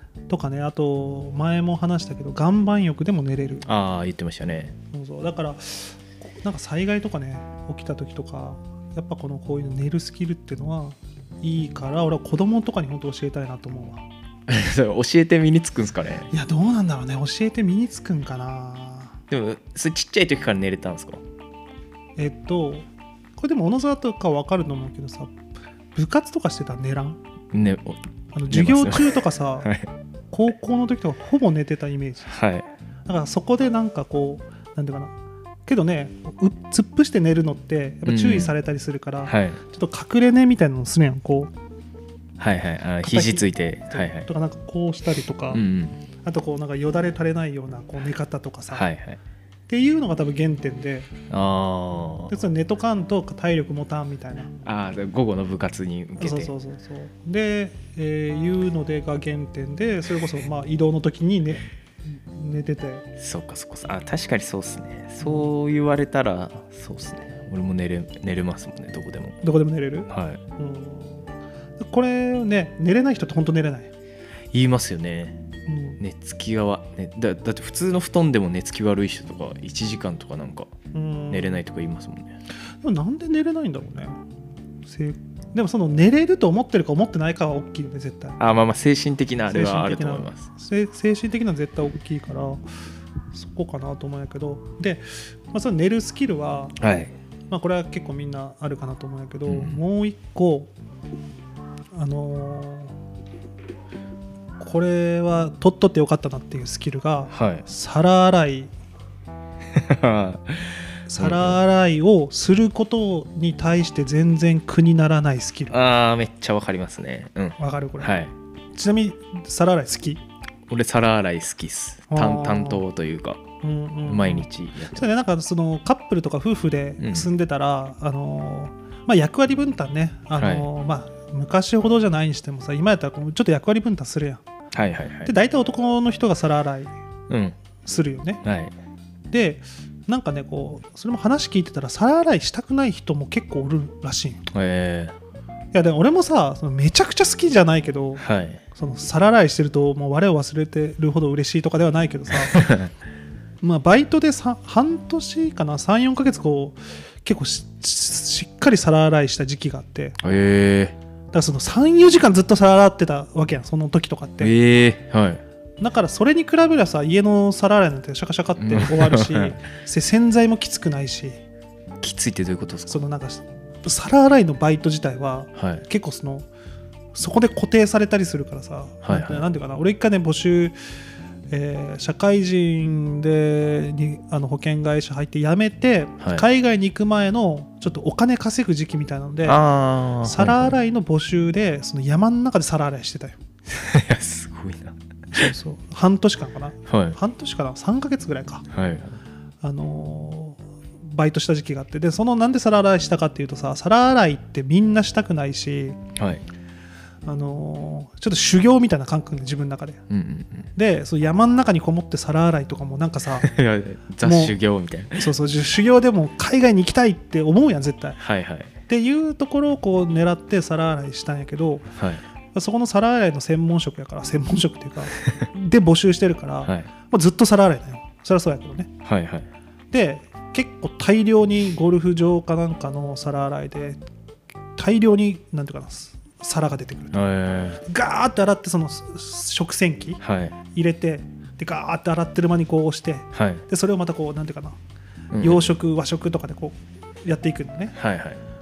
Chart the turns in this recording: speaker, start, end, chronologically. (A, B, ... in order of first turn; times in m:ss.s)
0:00.3-0:03.7 A
0:03.6-0:04.7 B
0:04.9-0:14.0 A
0:14.5-0:16.3 B
0:16.3-0:19.2 A
0:19.3-0:21.2 B
0:22.2-0:25.3 A
0:25.9-0:27.2 A
0:27.5-0:29.9 B
0:28.3-0:29.7 A
0:30.3-0:32.3 A
0:32.2-0:32.7 B
0:33.1-0:35.1 A
0:35.6-0:41.5 A
0:38.0-0:38.5 B
0:39.2-0:39.6 B
0:42.4-0:44.3 B
0:43.0-0:45.6 A
0:45.5-0:46.0 B
0:46.2-0:48.9 A
0:48.7-0:49.2 B
0:49.7-0:51.1 A
0:51.3-0:52.3 B
0:52.3-0:54.5 A
0:54.6-0:56.5 B
0:56.2-1:03.1 A
1:03.2-1:09.4 B
1:05.2-1:05.5 A
1:09.4-1:13.9 A
1:10.1-1:10.4 B
1:14.5-1:15.4 B
1:15.6-1:16.0 A
1:16.0-1:20.7 B
1:20.9-1:21.6 A
1:21.3-1:22.3 B
1:22.8-1:24.2 A
1:24.8-1:28.4 A
1:28.4-1:30.5 B
1:29.5-1:32.6 A
1:33.3-1:36.8 A
1:36.8-1:37.1 B
1:37.5-1:40.7 A
1:39.4-1:39.8 B
1:41.9-1:42.9 A
1:44.6-1:48.7 A
1:47.3-1:47.6 B
1:49.7-1:51.6 B
1:51.1-1:55.8 A
1:55.7-1:58.3 B
1:57.6-1:58.2 A
1:58.7-2:00.2 A
2:00.7-2:03.4 B
2:02.1-2:02.8 A
2:03.6-2:14.4 A
2:04.0-2:05.1 B
2:07.0-2:07.3 B
2:10.4-2:10.7 B
2:14.7-2:15.3 B
2:15.2-2:16.9 A
2:17.3-2:17.6 B
2:17.8-2:18.4 A
2:18.4-2:18.7 B
2:19.3-2:24.4 A
2:24.5-2:25.1 B
2:25.7-2:32.6 A
2:28.2-2:28.6 B
2:32.5-2:32.9 B
2:33.6-2:40.2 A
2:40.2-2:41.0 B
2:41.3-2:44.5 A
2:44.4-2:45.4 B
2:45.8-2:51.4 A
2:48.6-2:49.6 B
2:52.0-2:53.0 B
2:52.9-2:56.5 A
2:55.5-2:55.8 B
2:57.1-3:00.8 A
2:59.0-2:59.4 B
3:01.5-3:09.6 A
3:06.2-3:06.4 B
3:09.4-3:10.8 B
3:10.2-3:13.4 A
3:13.7-3:15.0 B
3:15.3-3:18.7 A
3:16.9-3:17.2 B
3:18.7-3:19.2 B
3:19.6-3:26.0 A
3:26.2-3:26.4 B
3:27.2-3:30.0 A
3:30.1-3:30.7 B
3:30.7-3:33.5 A
3:33.4-3:35.3 B
3:34.2-3:34.6 A
3:35.1-3:38.2 A
3:38.2-3:38.7 B
3:38.9-3:41.9 A
3:42.0-3:42.2 B
3:42.5-3:48.9 A
3:49.0-3:49.5 B
3:49.9-3:54.0 A
3:54.8-3:57.2 A
3:57.1-3:57.8 B
3:57.8-4:00.2 A
4:00.2-4:00.6 B
4:00.7-4:04.8 A
4:03.3-4:03.6 B
4:05.3-4:05.7 B
4:05.4-4:07.9 A
4:07.9-4:08.4 B